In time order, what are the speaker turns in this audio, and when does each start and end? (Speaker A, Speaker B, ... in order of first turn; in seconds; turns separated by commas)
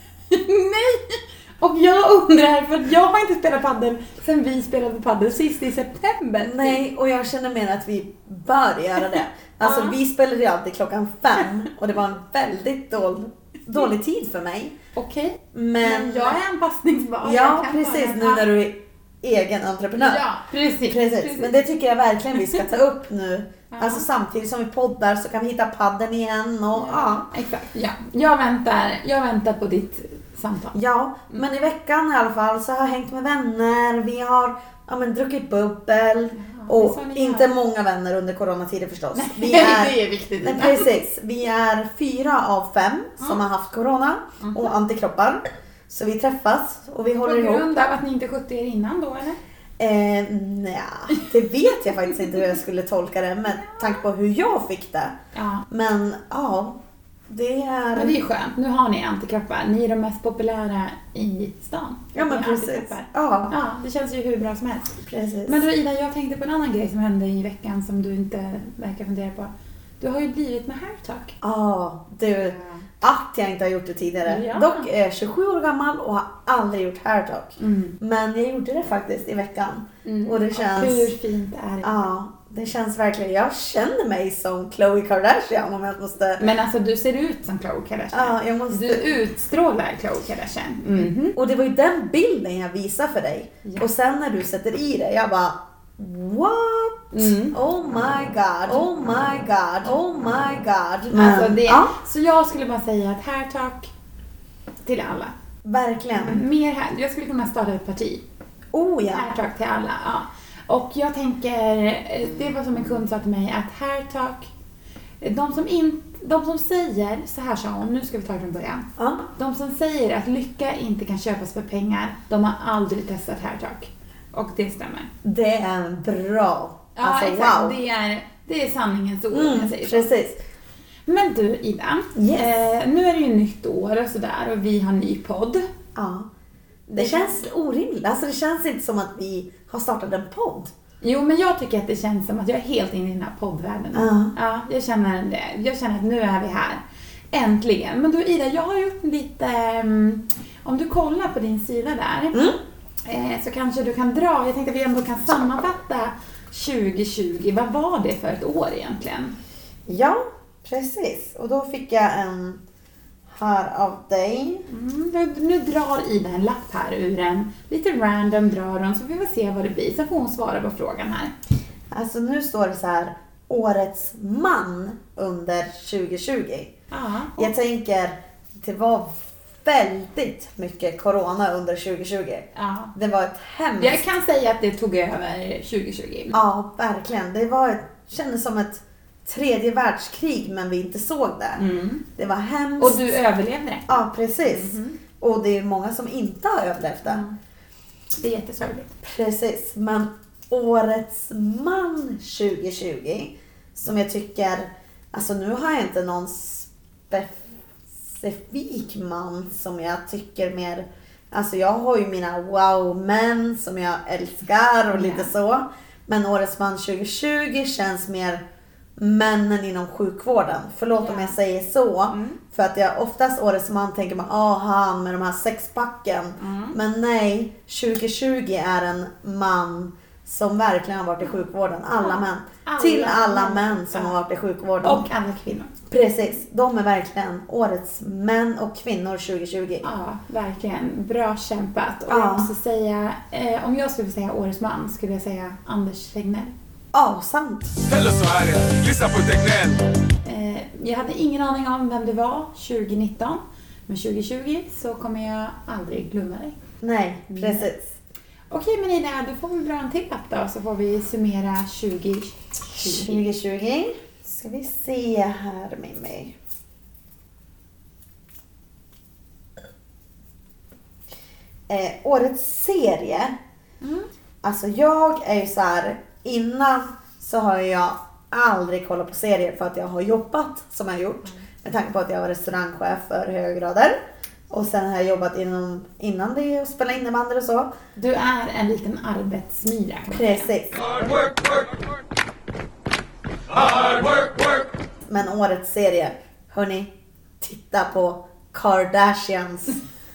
Speaker A: 0.3-6.8, Speaker B: 6.4-14.8, Speaker A: 9.6-9.9, Speaker A: 14.9-18.5, Speaker B: 15.5-16.4, Speaker B: 17.2-20.2, Speaker A: 19.9-21.6, Speaker B: 20.9-27.3, Speaker A: 23.7-24.1, Speaker A: 26.8-30.8, Speaker B: 30.7-47.6, Speaker A: 36.3-37.5, Speaker A: 39.1-40.9, Speaker A: 44.4-44.7, Speaker A: 47.2-49.4, Speaker B: 49.8-55.1, Speaker A: 53.6-53.9, Speaker A: 55.3-55.6, Speaker B: 55.7-56.8, Speaker B: 57.3-58.2, Speaker A: 57.9-64.9, Speaker B: 62.1-63.5, Speaker B: 65.0-65.6, Speaker A: 65.5-71.3, Speaker B: 71.4-81.1, Speaker A: 72.4-72.8, Speaker A: 74.2-74.9, Speaker A: 77.6-78.0, Speaker A: 80.0-81.9, Speaker B: 81.8-86.4, Speaker A: 86.4-91.4, Speaker B: 88.1-89.0, Speaker B: 91.0-101.9, Speaker A: 97.1-97.6, Speaker A: 101.1-103.9, Speaker A: 104.8-105.3, Speaker B: 105.6-106.4, Speaker A: 106.1-108.2, Speaker B: 108.7-109.3, Speaker A: 109.1-114.5, Speaker A: 115.2-125.1, Speaker B: 119.0-119.2, Speaker B: 125.2-127.8, Speaker A: 127.0-130.1, Speaker B: 129.3-130.4, Speaker A: 131.1-135.6, Speaker B: 132.2-132.5, Speaker B: 135.9-136.3, Speaker A: 136.9-137.4, Speaker B: 136.9-140.7, Speaker A: 141.0-159.3, Speaker B: 143.9-144.3, Speaker B: 152.3-152.6, Speaker B: 159.9-162.6, Speaker B: 163.3-164.6, Speaker A: 164.7-171.3, Speaker B: 171.9-176.7, Speaker A: 176.9-177.5, Speaker B: 177.4-184.1, Speaker A: 182.6-182.9, Speaker A: 183.8-186.4, Speaker B: 186.3-191.6, Speaker A: 191.6-192.0, Speaker B: 192.2-193.1, Speaker A: 192.8-195.0, Speaker B: 193.9-197.2, Speaker A: 197.1-197.3, Speaker A: 198.2-198.9, Speaker B: 199.0-207.4, Speaker B: 208.1-218.4, Speaker A: 214.9-215.3, Speaker B: 219.0-235.1, Speaker A: 220.9-221.3, Speaker A: 222.1-222.4, Speaker A: 226.4-226.8, Speaker A: 232.0-234.1, Speaker A: 234.8-235.7, Speaker B: 235.9-239.9, Speaker A: 239.8-246.5, Speaker B: 242.1-242.5, Speaker B: 246.9-247.7, Speaker C: 247.9-249.8, Speaker A: 250.2-256.6, Speaker B: 256.8-257.9, Speaker A: 257.3-257.7, Speaker A: 258.5-263.2, Speaker B: 262.7-266.3, Speaker B: 271.7-273.4, Speaker A: 273.8-274.1, Speaker B: 274.4-284.0, Speaker B: 284.5-287.7, Speaker A: 287.9-290.5, Speaker B: 290.1-291.3, Speaker B: 295.1-299.8